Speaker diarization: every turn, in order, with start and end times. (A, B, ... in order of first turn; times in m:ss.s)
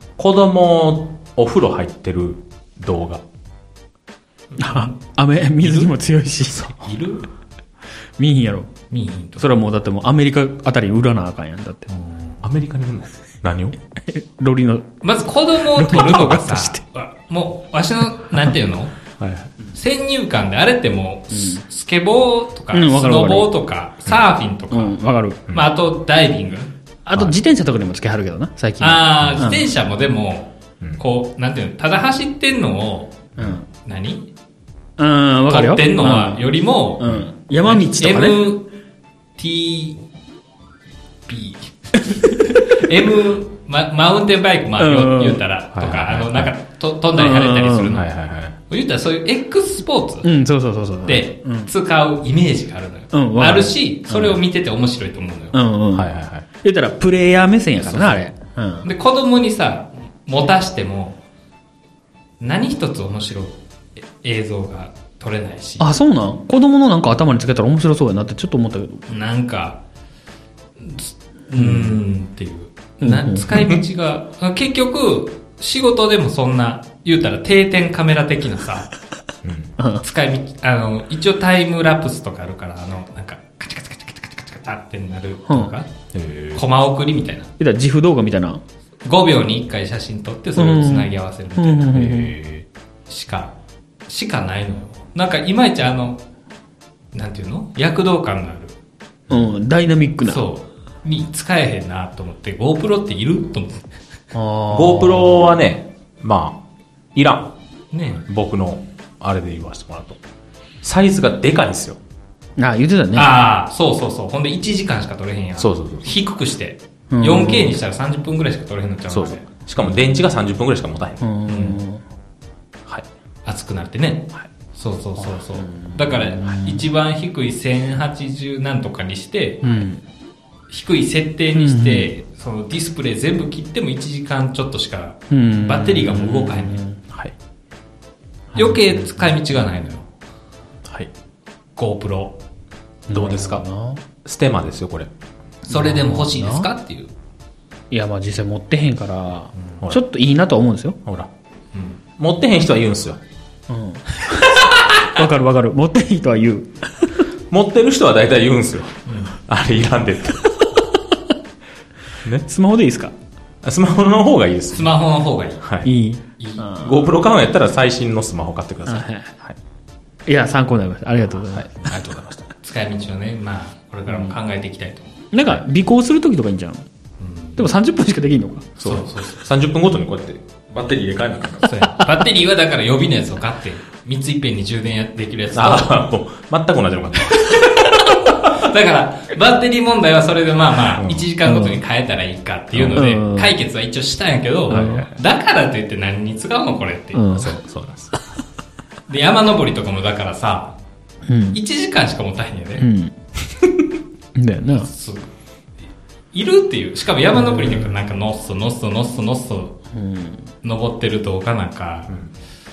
0:00.2-0:03.2 A
0:04.5-0:05.0 B
0:04.6-0:06.7 C
0:05.6-0:05.9 B
0:06.8-0:07.2 B
0:08.2-0:08.7 C
0:08.9-0:09.5 B
0:09.4-0:11.9 C
0:11.9-0:12.4 B
0:12.4-0:13.8 A
0:14.0-0:14.9 C
0:15.0-0:18.9 B
0:15.6-0:16.8 C
0:19.2-0:19.5 A
0:19.7-0:25.0 B
0:21.3-0:21.6 C
0:22.7-0:23.5 C
0:24.7-0:25.5 C
0:25.5-0:26.7 B
0:27.0-0:29.6 C
0:28.8-0:34.3 B
0:33.4-0:33.6 C
0:35.0-0:36.4 C
0:35.5-0:38.7 B
0:37.0-0:38.5 C
0:39.4-0:40.0 B
0:41.3-0:48.1 B
0:42.2-0:42.6 C
0:44.8-0:45.4 C
0:45.7-0:46.5 A
0:47.2-0:48.0 C
0:47.9-0:48.6 A
0:48.7-0:50.3 B
0:50.2-0:51.7 C
0:51.0-0:55.6 B
0:53.1-0:54.4 C
0:55.5-0:56.1 C
0:55.9-0:56.4 A
0:56.6-0:58.8 C
0:57.8-0:58.2 A
0:58.8-1:01.2 B
1:02.4-1:05.9 B
1:05.8-1:09.1 C
1:09.1-1:09.8 B
1:10.8-1:18.9 B
1:11.6-1:12.0 C
1:13.0-1:13.6 C
1:19.4-1:19.7 A
1:19.8-1:20.0 C
1:20.0-1:25.9 B
1:26.1-1:26.6 A
1:26.5-1:27.5 B
1:27.6-1:28.6 C
1:29.0-1:32.3 B
1:30.6-1:32.3 C
1:32.0-1:32.6 A
1:33.1-1:33.5 B
1:34.1-1:36.2 B
1:37.1-1:38.8 B
1:39.3-1:40.4 C
1:40.2-1:44.0 B
1:44.3-1:45.4 C
1:44.7-1:46.6 A
1:47.1-1:47.5 A
1:47.9-1:48.3 B
1:48.3-1:50.2 A
1:50.8-1:52.0 A
1:52.6-1:53.3 C
1:53.1-1:59.4 B
1:55.6-1:56.1 A
1:57.1-1:57.8 C
1:59.1-2:01.2 A
2:01.2-2:02.0 C
2:01.5-2:01.8 B
2:03.4-2:09.8 B
2:05.5-2:06.8 C
2:09.6-2:10.0 C
2:10.7-2:16.8 B
2:11.5-2:12.1 C
2:15.3-2:17.0 C
2:18.5-2:18.9 C
2:18.5-2:20.1 B
2:21.8-2:22.4 B
2:23.1-2:24.0 C
2:23.1-2:23.6 A
2:24.2-2:25.1 A
2:25.6-2:27.1 B
2:25.7-2:26.7 C
2:27.9-2:31.0 C
2:31.7-2:32.0 B
2:32.2-2:33.2 A
2:33.7-2:37.2 C
2:37.5-2:40.5 A
2:39.1-2:39.4 B
2:42.4-2:43.1 C
2:43.6-2:44.9 A
2:44.7-2:45.6 B
2:45.6-2:45.9 A
2:45.8-2:47.0 C
2:46.4-2:46.7 B
2:46.7-2:49.6 A
2:48.8-2:49.3 C
2:50.2-2:51.9 C
2:51.5-2:52.4 A
2:52.6-2:55.2 B
2:54.1-2:54.4 C
2:55.3-2:56.8 C
2:57.2-2:57.6 B
2:57.6-2:58.7 C
2:58.8-3:01.7 A
2:58.8-2:59.4 B
3:01.6-3:05.9 B
3:01.8-3:02.2 C
3:05.5-3:07.7 A
3:07.3-3:17.4 B
3:10.9-3:11.2 A
3:11.4-3:11.8 C
3:12.7-3:13.1 A
3:12.9-3:13.5 C
3:14.7-3:15.1 C
3:14.7-3:15.0 A
3:17.1-3:17.6 C
3:17.3-3:18.1 A
3:19.1-3:20.8 B
3:21.2-3:21.6 C
3:21.5-3:22.9 B
3:22.8-3:23.1 C
3:24.4-3:24.9 C
3:24.7-3:25.3 B
3:26.3-3:29.7 B
3:27.5-3:27.8 C
3:29.9-3:30.5 C
3:30.6-3:32.1 B